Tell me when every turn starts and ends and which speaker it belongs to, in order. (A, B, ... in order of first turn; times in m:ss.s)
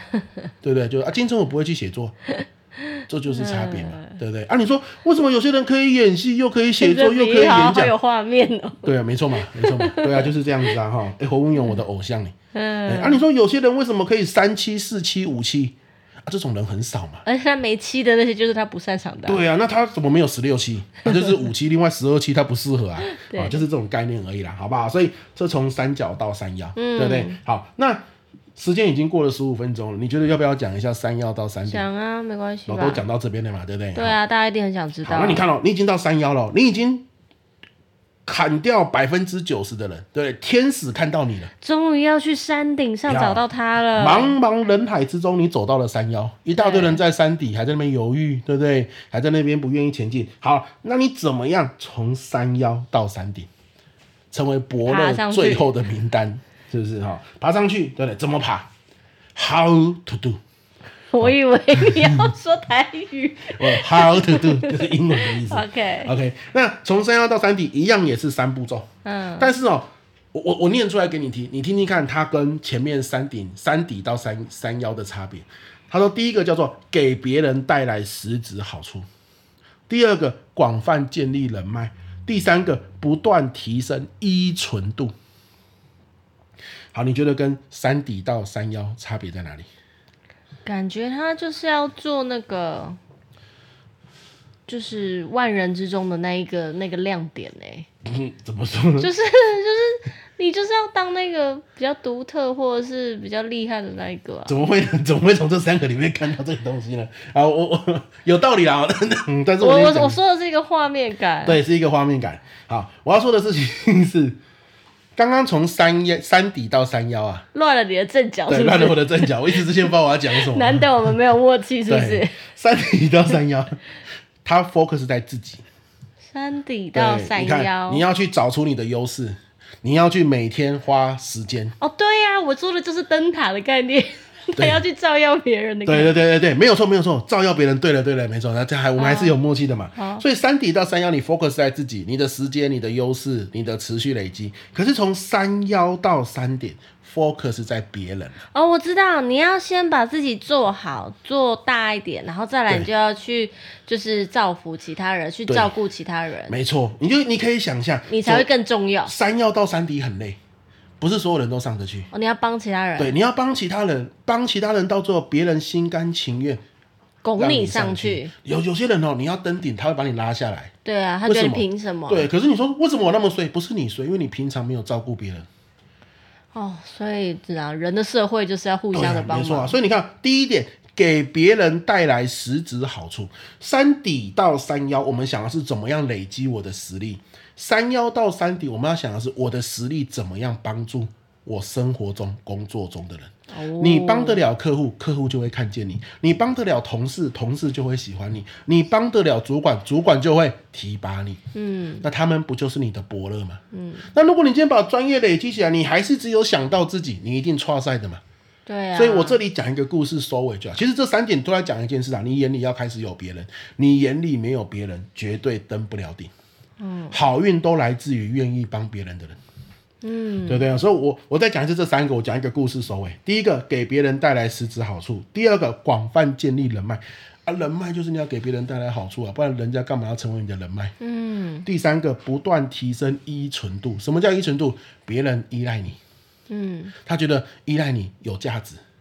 0:00.6-0:02.1 A
0:02.4-0:04.2 B
0:03.1-0:07.9 A
0:06.8-0:10.7 B
0:08.8-0:12.3 A
0:12.5-0:13.2 B
0:12.8-0:17.2 A
0:17.2-0:19.4 B
0:19.2-0:28.0 A
0:23.0-0:23.6 B
0:26.7-0:27.4 B
0:28.6-0:31.8 A
0:31.7-0:33.0 B
0:32.7-0:34.2 A
0:33.9-0:35.4 B
0:35.0-0:37.1 A
0:38.2-0:41.5 A
0:41.6-0:44.4 B
0:43.1-0:43.4 A
0:44.0-0:53.5 A
0:46.6-0:47.0 B
0:54.3-0:58.7 A
0:54.8-0:55.7 B
0:59.3-1:00.4 A
1:01.1-1:06.1 B
1:01.2-1:02.3 A
1:03.5-1:08.9 A
1:09.0-1:09.5 B
1:09.4-1:19.0 A
1:19.9-1:25.1 A
1:26.9-1:29.7 A
1:30.6-1:33.0 B
1:34.7-1:37.9 B
1:38.0-1:39.1 A
1:39.0-1:44.6 B
1:44.5-1:50.2 A
1:49.6-1:51.6 B
1:51.4-1:54.4 A
1:55.2-1:57.4 A
1:57.5-2:02.4 B
1:58.5-2:01.1 A
2:01.9-2:03.8 A
2:04.4-2:05.6 A
2:06.3-2:08.0 B
2:06.9-2:11.7 A
2:11.8-2:16.2 B
2:14.6-2:14.8 A
2:15.8-2:28.4 A
2:19.0-2:19.4 B
2:20.0-2:20.2 B
2:28.5-2:36.5 B
2:35.5-2:35.7 A
2:36.5-2:38.5 A
2:38.1-2:39.1 B
2:39.0-2:40.4 A
2:41.0-2:42.1 A
2:42.1-2:43.1 B
2:43.0-2:46.6 A
2:47.2-2:48.3 B
2:47.4-2:50.7 A
2:50.8-2:52.3 B
2:51.2-2:55.5 A
2:56.5-2:59.8 B
2:58.9-3:21.4 A
3:13.5-3:14.4 B
3:21.5-3:22.0 B
3:22.0-3:28.2 A
3:23.7-3:24.1 B
3:28.6-3:29.4 B
3:28.9-3:36.3 A
3:36.8-3:37.2 B
3:37.1-3:39.4 A
3:40.0-3:40.7 B
3:40.4-3:50.9 A
3:51.0-3:51.6 B
3:51.6-3:56.0 A
3:56.5-3:56.9 B
3:57.0-3:58.8 A